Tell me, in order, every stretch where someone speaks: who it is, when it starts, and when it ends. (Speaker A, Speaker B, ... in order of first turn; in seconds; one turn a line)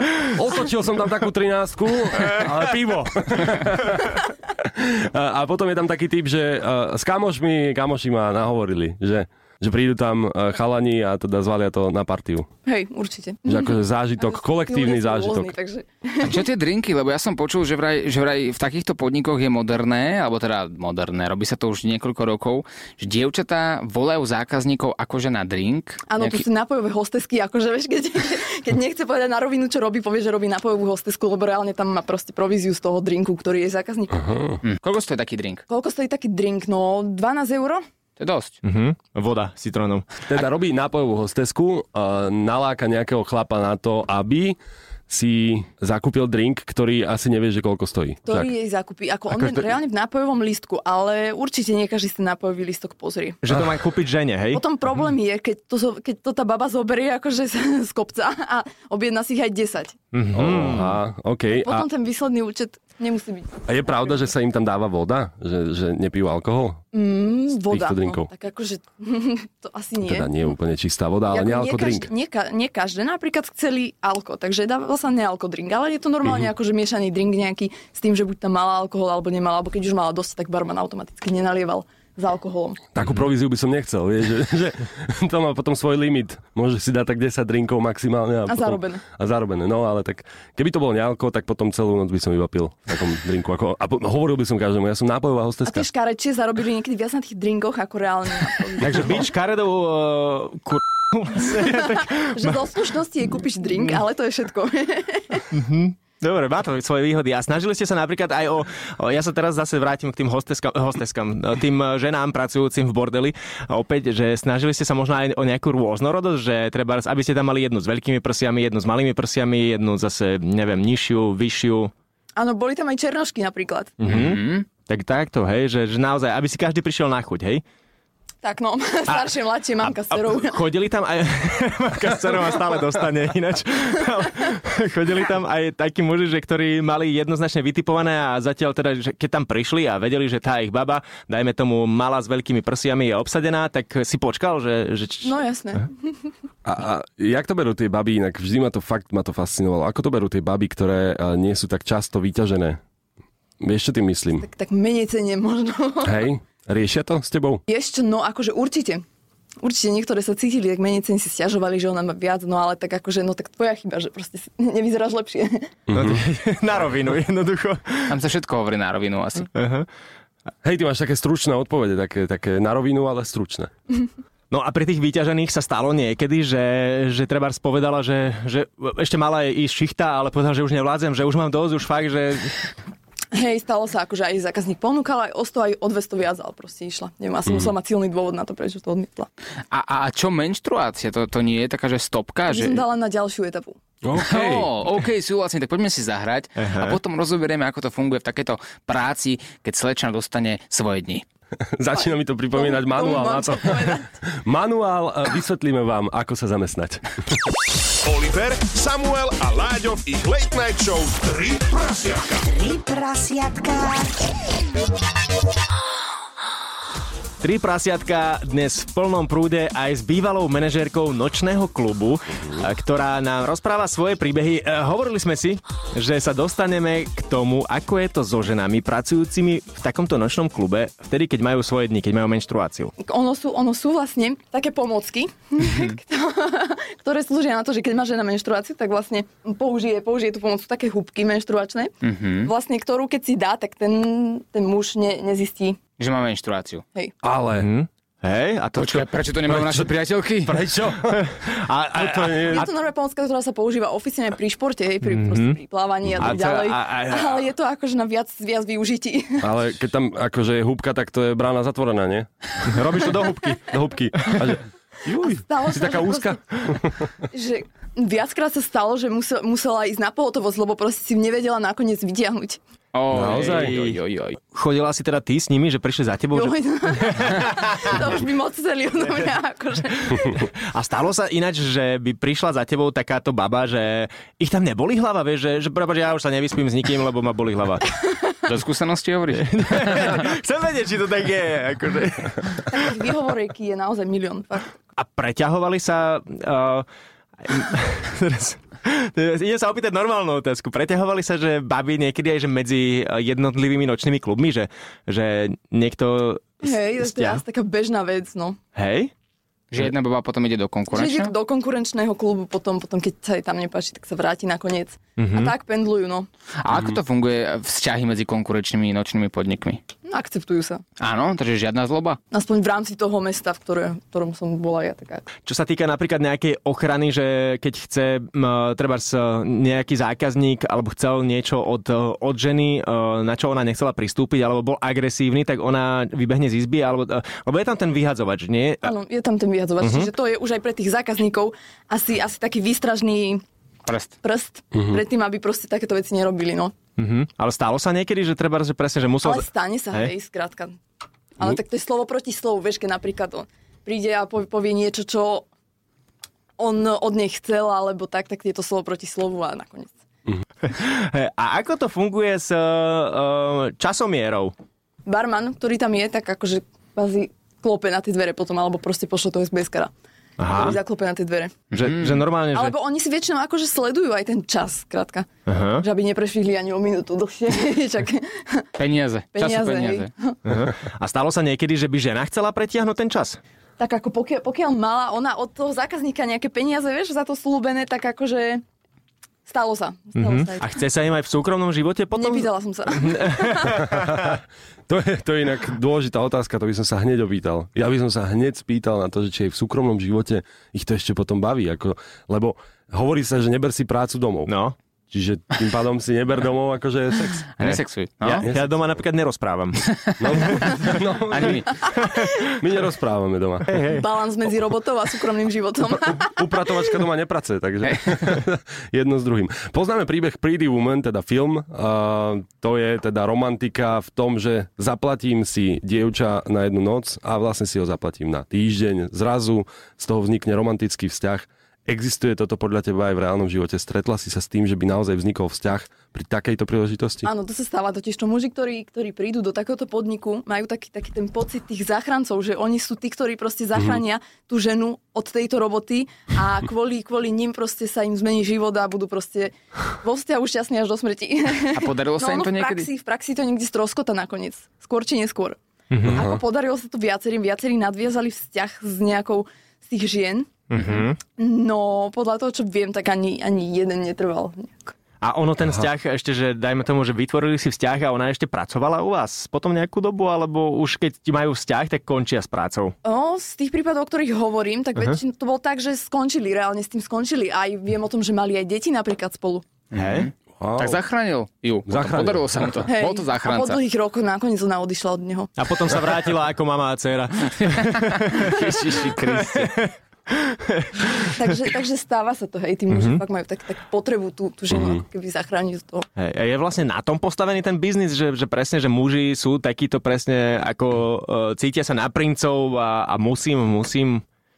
Speaker A: 0.3-12.5
Speaker B: 12.7-16.4
Speaker A: 13.5-15.5
Speaker C: 16.2-26.4
Speaker B: 26.1-34.3
Speaker A: 34.1-34.6
Speaker C: 34.6-35.6
Speaker B: 35.7-37.8
Speaker C: 38.2-38.6
Speaker D: 38.6-40.1
Speaker A: 40.3-44.6
Speaker A: 45.1-48.5
Speaker B: 48.2-53.4
Speaker D: 53.4-54.6
Speaker B: 54.5-60.0
Speaker D: 60.1-61.0
Speaker A: 60.3-61.9
Speaker B: 61.6-63.7
Speaker A: 63.7-66.8
Speaker B: 66.9-70.4
Speaker A: 67.7-68.3
Speaker A: 70.0-72.1
Speaker B: 71.3-82.8
Speaker A: 83.0-95.9
Speaker B: 88.5-89.0
Speaker B: 95.7-99.2
Speaker D: 98.8-102.6
Speaker B: 101.5-105.5
Speaker D: 105.5-121.9
Speaker B: 122.4-123.9
Speaker D: 124.0-127.6
Speaker C: 124.1-124.7
Speaker B: 128.4-130.6
Speaker D: 129.8-145.3
Speaker B: 145.2-146.3
Speaker A: 146.7-152.8
Speaker A: 153.6-154.5
Speaker B: 154.4-156.2
Speaker A: 156.0-157.6
Speaker B: 157.7-159.0
Speaker B: 159.6-165.7
Speaker A: 165.9-166.2
Speaker D: 165.9-168.2
Speaker C: 168.1-169.5
Speaker D: 169.5-169.9
Speaker A: 170.6-173.7
Speaker D: 174.5-182.7
Speaker B: 183.3-189.3
Speaker C: 189.7-192.8
Speaker B: 192.5-193.8
Speaker A: 194.0-194.7
Speaker C: 194.2-201.2
Speaker D: 196.6-197.0
Speaker A: 201.8-207.0
Speaker B: 202.0-204.1
Speaker E: 208.1-212.5
Speaker D: 212.6-214.1
Speaker D: 217.4-232.9
Speaker B: 233.0-245.8
Speaker C: 235.7-235.9
Speaker C: 242.0-242.5
Speaker C: 246.0-246.8
Speaker A: 247.2-247.7
Speaker D: 247.6-249.1
Speaker C: 248.7-250.6
Speaker A: 249.5-249.9
Speaker A: 250.4-251.3
Speaker D: 251.1-252.7
Speaker A: 251.9-252.7
Speaker B: 252.4-259.5
Speaker D: 255.0-255.6
Speaker A: 256.1-256.4
Speaker D: 256.2-257.4
Speaker A: 259.4-267.0
Speaker D: 262.6-263.6
Speaker B: 265.2-266.4
Speaker B: 267.3-272.6
Speaker C: 272.9-274.4
Speaker A: 273.1-273.8
Speaker D: 273.2-274.0
Speaker D: 274.5-278.0
Speaker B: 276.3-280.4
Speaker D: 280.4-287.9
Speaker C: 288.4-290.2
Speaker D: 289.3-292.9
Speaker B: 292.7-294.7
Speaker D: 295.0-296.9
Speaker D: 297.4-307.4
Speaker B: 306.6-308.6
Speaker D: 308.8-309.1
Speaker C: 309.7-311.3
Speaker B: 310.9-316.3
Speaker D: 315.2-315.5
Speaker C: 316.6-319.8
Speaker B: 320.1-320.8
Speaker C: 321.0-322.2
Speaker B: 322.3-325.2
Speaker D: 325.5-338.9
Speaker B: 338.8-343.4
Speaker D: 339.8-340.1
Speaker C: 343.9-344.1
Speaker B: 344.2-346.7
Speaker D: 347.0-350.1
Speaker B: 349.2-350.8
Speaker B: 351.4-355.5
Speaker B: 356.6-359.9
Speaker D: 360.6-364.5
Speaker B: 365.1-369.9
Speaker D: 370.4-370.8
Speaker B: 370.5-371.5
Speaker C: 371.7-372.2
Speaker D: 371.8-372.8
Speaker B: 372.5-378.7
Speaker D: 375.5-375.9
Speaker C: 378.8-380.1
Speaker B: 379.4-380.4
Speaker D: 380.5-383.4
Speaker B: 383.8-388.6
Speaker B: 389.5-390.7
Speaker D: 390.2-394.3
Speaker B: 392.2-393.9
Speaker A: 393.8-404.5
Speaker D: 404.5-404.8
Speaker A: 405.1-407.4
Speaker C: 407.6-408.5
Speaker D: 407.6-409.9
Speaker A: 408.4-408.8
Speaker C: 409.9-410.7
Speaker A: 410.2-411.7
Speaker C: 411.3-412.1
Speaker A: 412.4-413.9
Speaker D: 413.7-414.1
Speaker B: 413.9-416.7
Speaker A: 416.0-437.3
Speaker B: 437.2-460.5
Speaker C: 451.7-452.9
Speaker D: 455.9-456.2
Speaker A: 456.0-456.4
Speaker D: 460.7-461.2
Speaker C: 460.8-461.1
Speaker B: 461.4-464.9
Speaker D: 465.2-472.9
Speaker B: 473.0-479.6
Speaker C: 479.9-483.8
Speaker D: 479.9-480.3
Speaker A: 480.6-481.0
Speaker A: 481.9-482.7
Speaker B: 482.9-485.5
Speaker D: 485.6-491.4
Speaker B: 491.3-496.1
Speaker D: 492.9-493.2
Speaker A: 494.7-495.0
Speaker D: 496.2-504.2